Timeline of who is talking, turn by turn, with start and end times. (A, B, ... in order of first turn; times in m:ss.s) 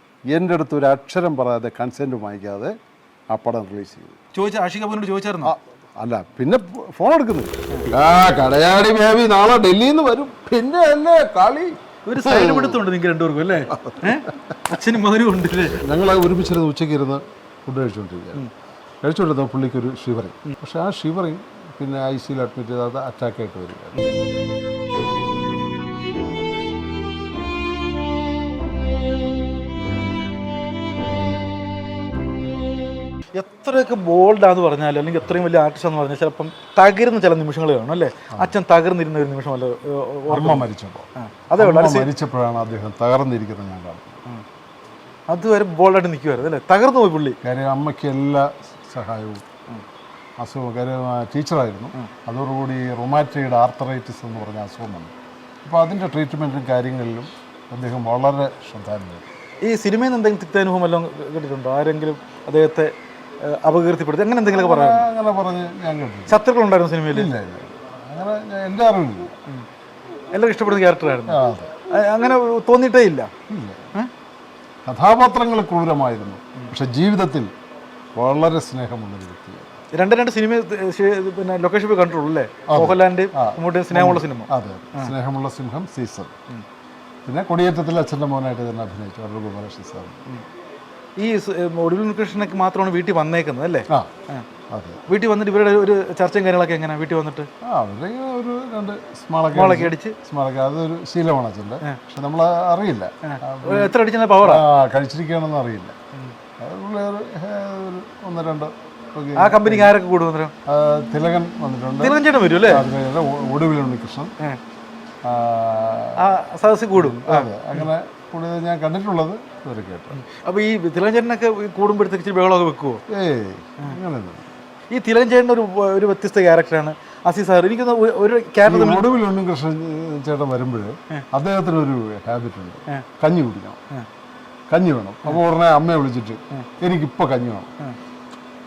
0:00.3-0:02.7 A
0:03.3-0:04.2 A
0:04.3-0:05.5 B
0:05.4-0:12.8 A
0:12.1-0:15.8 B
0:13.7-0:14.2 A
0:15.7-0:18.5 A
0:19.0-0:24.0 A
0:33.4-0:42.1 B
0:40.3-0:44.2 A
0:45.3-0:47.4 B
0:47.4-0:49.4 A
0:50.4-0:59.3 A
0:59.6-1:05.1 B
1:04.4-1:06.4 A
1:06.3-1:07.3 B
1:07.1-1:09.4 A
1:10.3-1:13.3 B
1:11.3-1:11.8 A
1:13.5-1:13.9 A
1:14.9-1:17.5 A
1:18.2-1:19.8 A
1:19.9-1:25.1 B
1:22.7-1:26.3 A
1:27.3-1:30.2 A
1:31.2-1:34.5 B
1:34.7-1:35.0 A
1:35.1-1:37.5 B
1:37.6-1:46.0 A
1:39.5-1:40.2 B
1:43.2-1:44.6 B
1:46.6-1:50.0 A
1:49.4-1:50.5 B
1:50.6-1:54.3 A
1:52.0-1:52.8 B
1:55.2-1:56.3 A
1:56.2-1:57.9 B
1:56.9-2:00.2 A
2:00.2-2:03.0 B
2:03.1-2:04.5 A
2:04.9-2:09.1 B
2:08.6-2:13.8 A
2:14.7-2:17.7 A